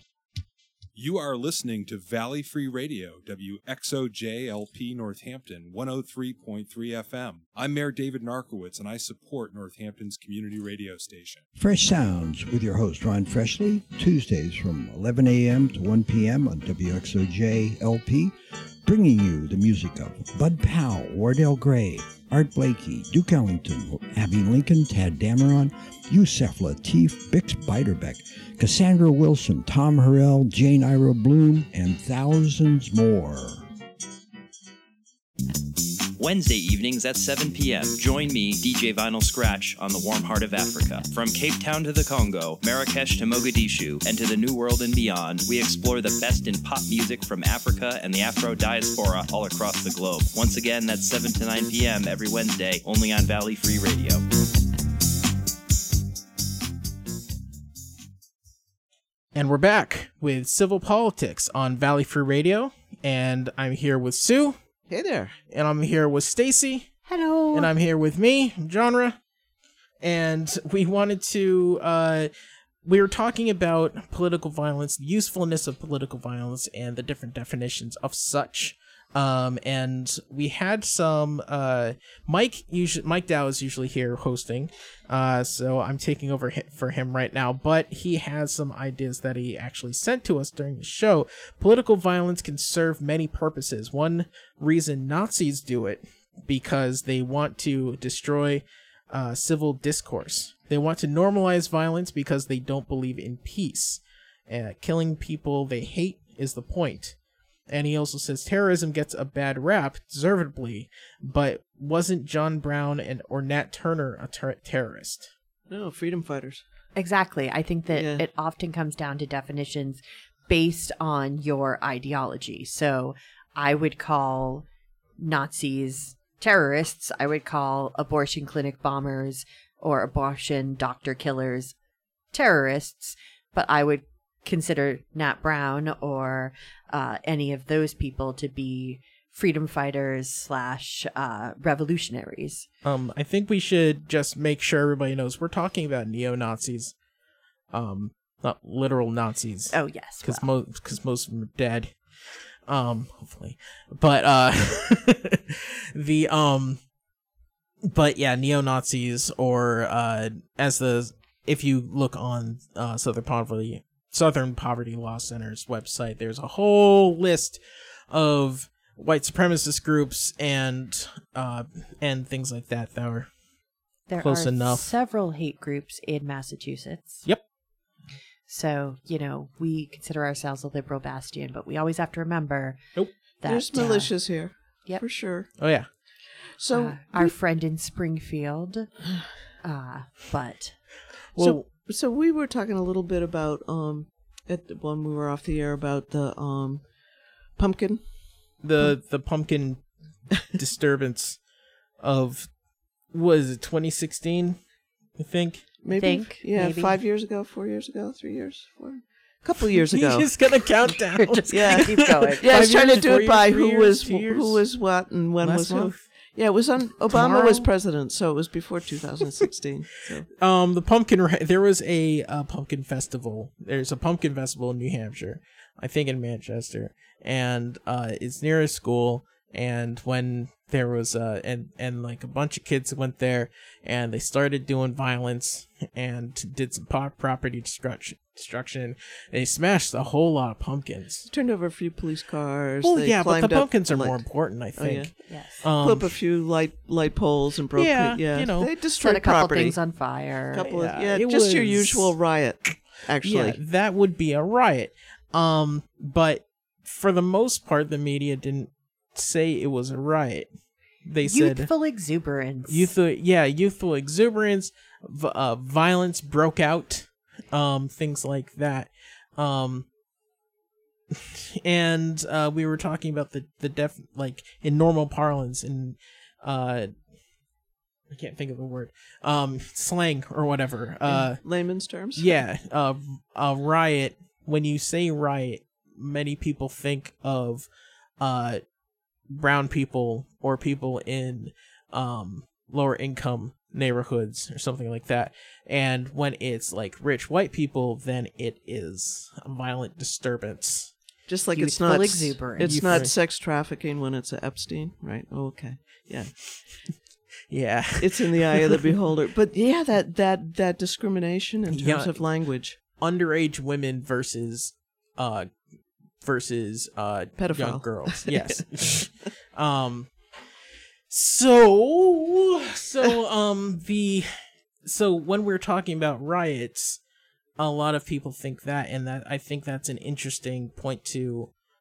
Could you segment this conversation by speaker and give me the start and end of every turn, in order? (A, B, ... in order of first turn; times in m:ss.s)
0:00.9-0:11.4 A
0:11.6-0:33.7 B
0:36.2-0:54.2 C
0:59.3-1:04.6 D
1:04.9-1:05.4 E
1:05.5-1:07.0 D
1:07.0-1:07.7 F
1:07.5-1:09.2 D
1:10.0-1:12.3 D
1:12.8-1:47.2 D
1:47.7-1:55.3 D
1:55.7-1:56.6 E
1:57.0-2:04.6 F
1:57.9-1:58.2 E
2:05.2-2:11.7 F
2:12.3-2:22.6 F
2:22.8-2:26.9 D
2:27.7-2:32.0 D
2:29.7-2:30.5 F
2:32.7-2:36.8 D
2:37.8-2:47.6 D
2:48.1-2:53.3 D
2:54.1-2:57.3 F
2:54.2-2:54.9 D
2:58.5-3:02.8 F
3:03.4-3:04.3 F
3:03.4-3:05.6 E
3:05.6-3:05.9 D
3:06.6-3:07.4 E
3:06.7-3:08.9 F
3:09.6-3:10.8 F
3:11.3-3:11.6 D
3:11.4-3:16.9 E
3:17.5-3:18.9 E
3:18.6-3:19.9 D
3:20.4-3:21.4 D
3:22.0-3:22.6 D
3:23.1-3:24.6 D
3:25.2-3:25.8 D
3:25.8-3:30.3 E
3:25.9-3:27.0 F
3:29.9-3:34.7 D
3:31.1-3:32.7 F
3:31.5-3:40.3 E
3:35.4-3:36.1 D
3:37.1-3:37.7 D
3:40.4-4:01.3 D
4:01.3-4:05.1 E
4:02.8-4:06.2 D
4:05.3-4:05.6 F
4:05.7-4:09.8 E
4:07.8-4:08.7 D
4:09.0-4:10.7 F
4:10.5-4:13.6 E
4:10.7-4:12.2 D
4:13.2-4:20.5 D
4:21.0-4:21.7 D
4:21.2-4:22.9 F
4:22.7-4:29.9 D
4:31.1-4:36.9 D
4:38.1-4:41.4 D
4:41.0-4:42.4 E
4:42.2-4:47.7 D
4:48.2-4:48.6 D
4:49.3-5:00.9 D
5:01.3-5:06.3 E
5:01.5-5:03.0 F
5:02.6-5:03.1 D
5:07.5-5:08.8 D
5:08.0-5:12.8 E
5:11.7-5:12.3 D
5:12.8-5:15.6 D
5:16.2-5:20.2 D
5:17.4-5:19.0 E
5:21.1-5:24.3 D
5:24.8-5:27.0 D
5:27.6-5:31.5 D